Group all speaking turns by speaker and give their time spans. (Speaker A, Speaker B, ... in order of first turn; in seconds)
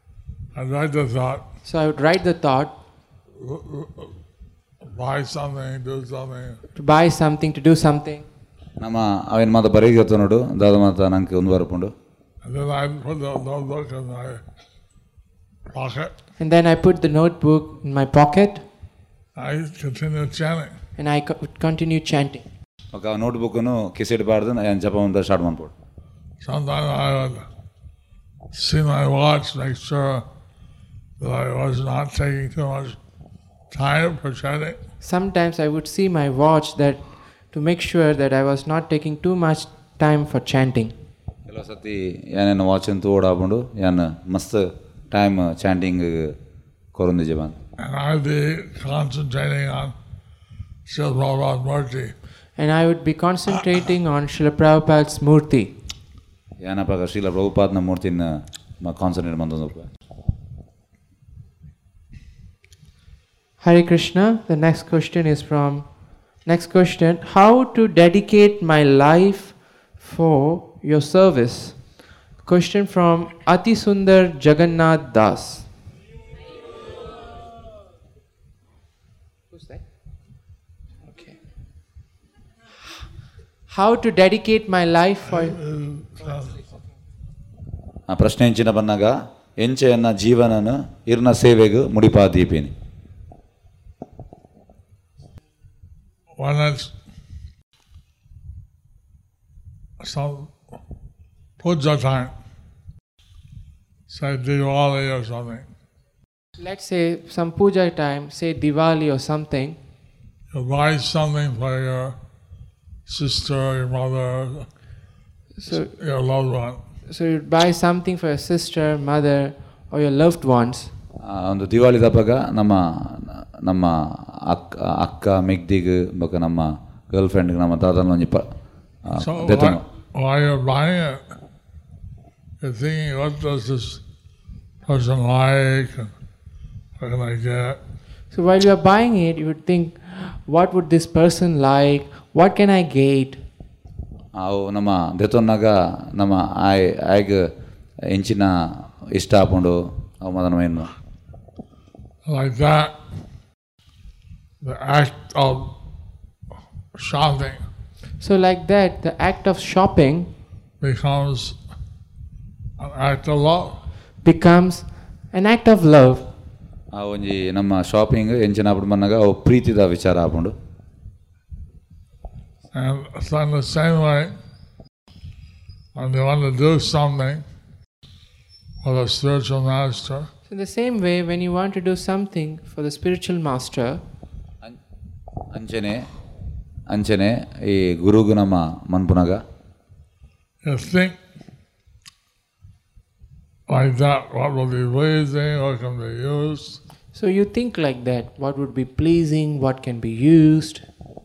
Speaker A: 0.5-1.4, 3.4-4.1, 4.8-6.6, 12.4-14.4, 15.7-16.1, 19.4-20.8, 26.4-27.4, 28.5-30.2, 31.2-33.0, 33.7-34.8, 47.8-49.9, 50.9-52.1, 85.3-86.6, 96.4-96.9, 100.0-100.5, 101.6-102.3, 104.1-105.7, 110.5-112.2, 113.0-114.7, 115.7-116.8, 129.1-131.2, 132.6-134.0, 134.8-136.1, 137.0-137.8, 152.2-152.9, 154.6-155.7, 157.0-157.6, 160.8-161.6, 162.8-163.8, 172.7-174.3, 175.9-177.4, 178.8-180.3, 190.6-191.2, 193.7-196.8
Speaker B: 1.6-2.7, 6.8-8.2, 16.4-18.6, 21.0-22.4, 35.0-40.9, 52.6-55.7, 63.6-65.8, 66.5-71.8, 72.4-75.7, 79.5-79.8, 81.1-81.3, 83.7-85.6, 106.6-109.8, 115.6-115.9, 117.1-120.9, 138.3-143.4, 158.2-160.3, 164.2-166.2, 180.5-184.0, 197.1-200.8
Speaker C: 8.8-11.9, 22.9-25.7, 41.5-46.4, 46.9-47.6, 56.6-59.9, 88.1-92.7, 121.2-128.5, 129.0-129.8, 144.3-147.5, 148.1-150.9, 166.9-170.5, 185.5-186.1, 186.9-189.4